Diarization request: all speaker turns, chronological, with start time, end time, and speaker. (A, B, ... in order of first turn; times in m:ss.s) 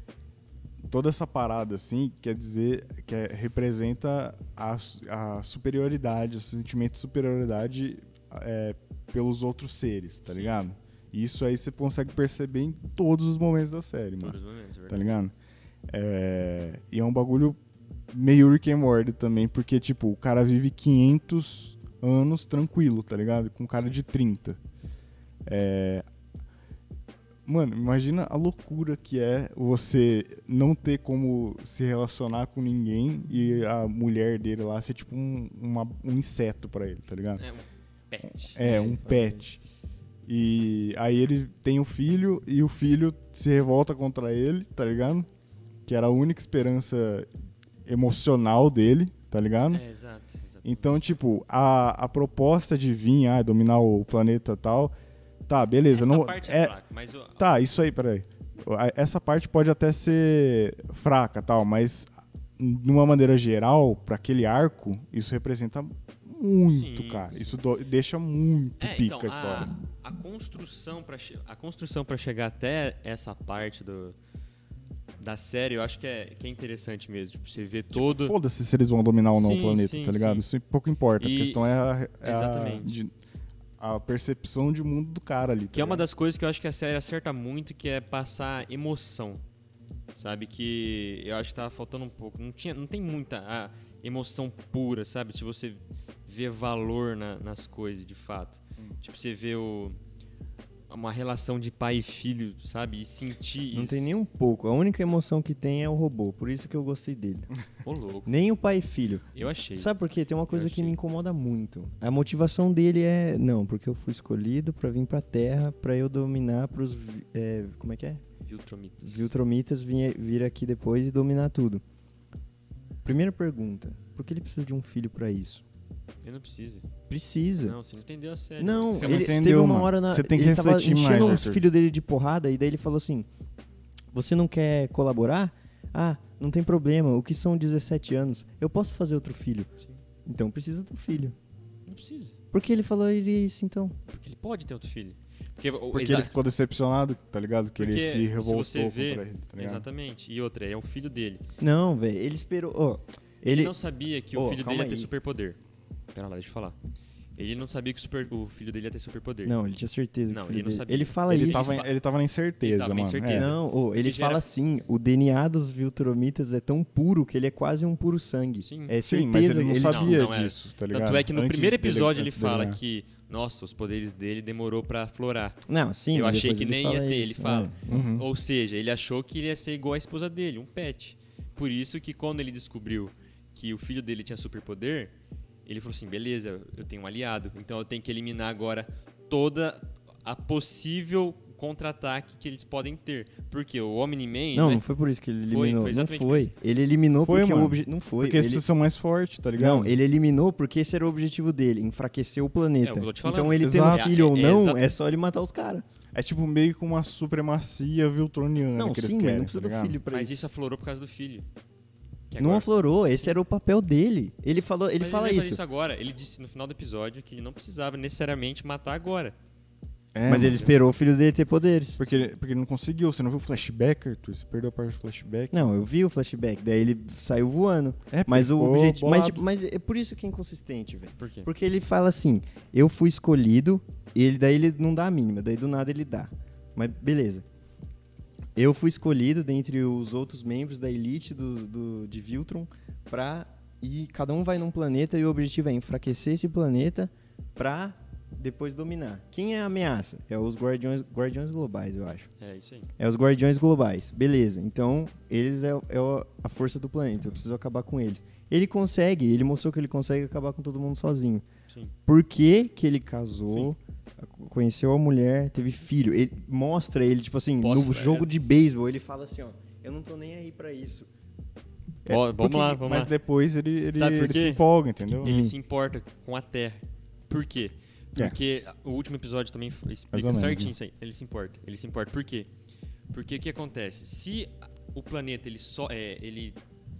0:00.8-0:14.4 A
0:10.3-0:10.6 B
0:14.2-0:15.2 B
0:14.9-0:15.3 A
0:15.9-0:17.6 A
0:18.1-0:24.6 A
0:25.4-0:26.0 A
0:27.4-0:37.4 A
0:37.4-0:38.8 B
0:38.4-0:39.6 A
0:38.6-0:39.4 C
0:40.3-0:45.3 A
0:45.8-0:47.3 A
0:47.8-0:49.8 A
0:49.7-0:51.0 B
0:50.6-0:54.9 A
0:55.5-0:56.7 A
0:55.9-0:57.5 B
0:57.4-1:09.7 A
1:06.7-1:07.6 B
1:08.8-1:14.2 B
1:15.2-1:18.4 B
1:17.9-1:23.1 A
1:19.3-1:20.4 B
1:21.2-1:21.6 B
1:22.2-1:23.0 B
1:23.8-1:26.0 A
1:25.7-1:29.4 B
1:30.1-1:40.0 B
1:40.9-1:44.1 B
1:43.7-1:47.5 C
1:47.8-1:48.3 B
1:48.2-1:58.2 C
1:49.3-1:49.9 B
1:50.5-1:51.0 B
1:58.4-1:59.3 B
1:59.0-2:01.8 C
2:03.0-2:05.6 C
2:06.2-2:06.9 B
2:07.1-2:07.8 C
2:07.6-2:09.4 B
2:08.6-2:13.3 C
2:08.9-2:11.6 A
2:14.1-2:19.7 C
2:20.2-2:21.4 C
2:21.9-2:22.4 B
2:22.5-2:24.0 C
2:24.1-2:26.4 B
2:25.9-2:29.8 A
2:27.8-2:31.4 B
2:31.6-2:33.7 C
2:33.5-2:35.6 B
2:34.3-2:35.1 C
2:36.1-2:36.8 B
2:37.4-2:39.6 B
2:39.4-2:41.8 C
2:40.3-2:41.9 B
2:41.3-2:43.5 A
2:42.6-2:44.4 B
2:43.3-2:50.2 C
2:48.6-2:48.9 B
2:49.0-2:52.8 A
2:49.8-2:55.6 B
2:55.6-2:58.0 C
2:56.1-3:05.1 B
2:57.9-2:58.3 A
3:05.6-3:14.8 B
3:14.5-3:18.6 C
3:15.5-3:16.5 B
3:17.2-3:19.9 A
3:19.6-3:25.8 C
3:22.8-3:24.8 B
3:23.6-3:24.1 A
3:26.1-3:30.0 A
3:28.7-3:30.4 C
3:30.1-3:31.5 B
3:32.3-3:32.7 B
3:32.4-3:35.6 C
3:35.0-3:39.3 B
3:40.1-3:40.7 A
3:40.2-3:42.0 C
3:40.4-3:40.7 B
3:42.0-3:45.7 A
3:45.5-3:57.4 C
3:48.1-3:49.4 A
3:51.2-3:51.5 B
3:58.5-4:12.3 C
4:12.4-4:12.9 B
4:13.0-4:21.4 C
4:22.0-4:31.1 C
4:27.6-4:28.3 B
4:32.0-4:33.1 B
4:32.4-4:35.3 A
4:33.9-4:34.6 B
4:35.2-4:42.5 B
4:35.2-4:35.5 C
4:40.1-4:40.7 A
4:43.1-4:46.6 B